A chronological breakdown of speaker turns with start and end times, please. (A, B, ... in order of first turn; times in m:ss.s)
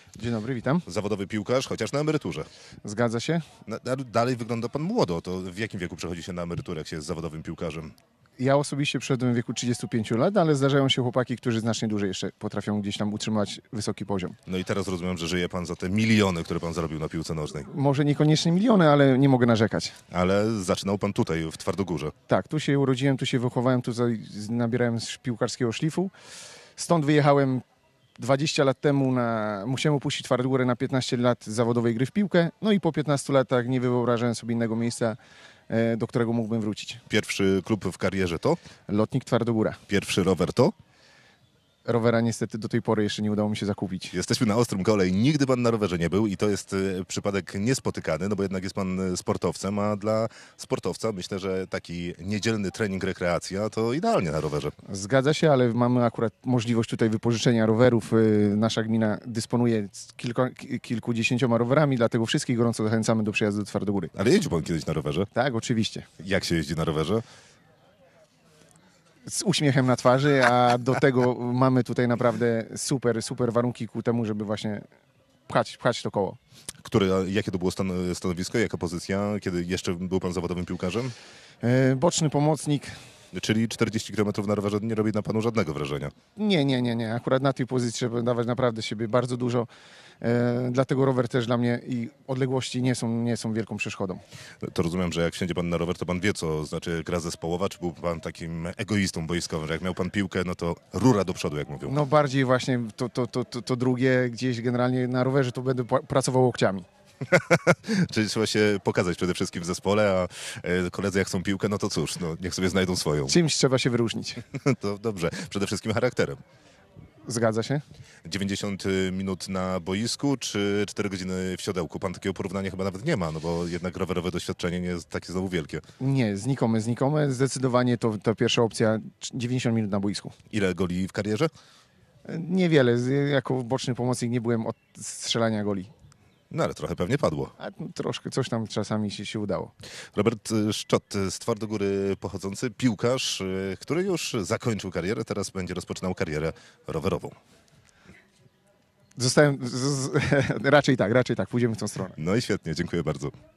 0:00.2-0:00.8 A
0:00.8-0:02.5 B
0:02.8-0:03.4 A
0:03.6-0:07.9 B
0:08.4-0:14.4 A
0:14.4-0:17.7 B
0:17.6-0:20.0 A
0:20.1-0:22.1 B
0:22.3-0:26.1 A
0:26.8-0:27.6 A
0:28.2-0:35.2 A
0:35.7-0:37.0 A
0:37.1-0:38.6 B
0:38.9-0:39.8 A
0:39.9-0:40.7 B
0:41.8-0:44.1 A
0:44.1-0:54.7 B
0:54.8-1:04.1 A
1:04.1-1:05.3 B
1:05.3-1:06.1 A
1:06.2-1:07.2 B
1:09.2-1:14.8 A
1:15.5-1:16.4 A
1:16.8-1:21.1 B
1:21.6-1:22.9 A
1:23.3-1:26.1 B
1:26.4-1:29.7 A
1:30.2-1:34.2 A
1:34.6-1:42.0 B
1:41.8-1:46.8 A
1:47.3-1:53.3 B
1:53.3-1:54.4 A
1:54.5-1:56.4 B
1:57.2-1:57.8 A
1:58.2-2:05.8 B
2:06.0-2:10.3 A
2:10.5-2:11.5 B
2:12.2-2:15.9 A
2:16.5-2:17.5 B
2:17.6-2:19.7 A
2:20.1-2:27.4 B
2:29.2-2:32.2 A
2:32.2-2:33.3 B